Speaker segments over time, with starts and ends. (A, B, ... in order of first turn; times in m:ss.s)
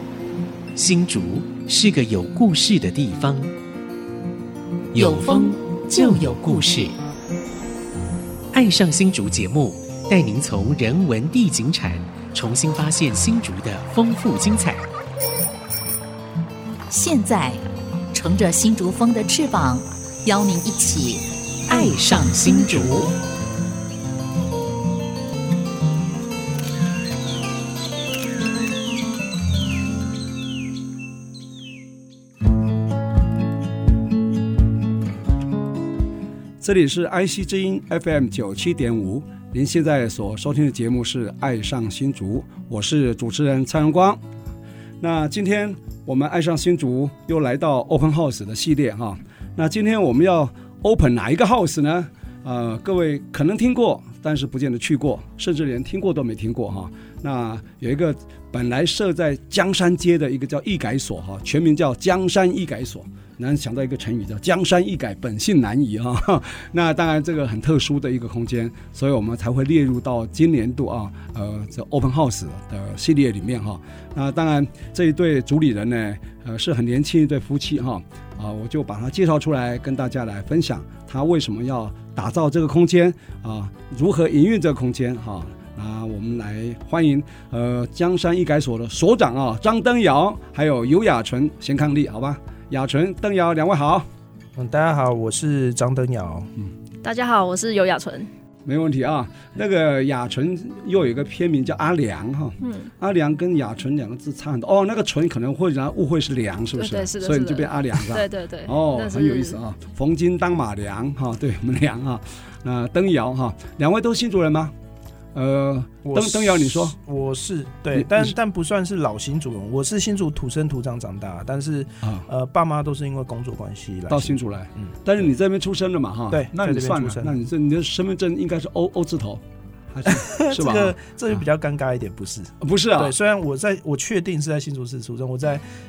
0:00.7-0:03.5 A
0:04.9-0:07.0 A
0:05.0-0:06.9 B
0:08.5-0:14.8 A
0:16.9-0:17.6 B
0:18.1-0:23.1 B
0:21.7-0:23.1 A
0:36.6-0:44.2 C
0:45.0-1:34.1 C
1:34.6-1:36.5 D
1:37.0-1:38.3 E
1:38.6-1:54.7 C
1:42.6-1:42.9 E
1:46.7-1:49.6 E
1:55.3-1:56.9 C
1:56.0-2:05.0 D
1:57.9-1:58.3 C
2:04.1-2:10.9 C
2:06.3-2:07.4 D
2:10.0-2:15.6 D
2:12.6-2:13.1 C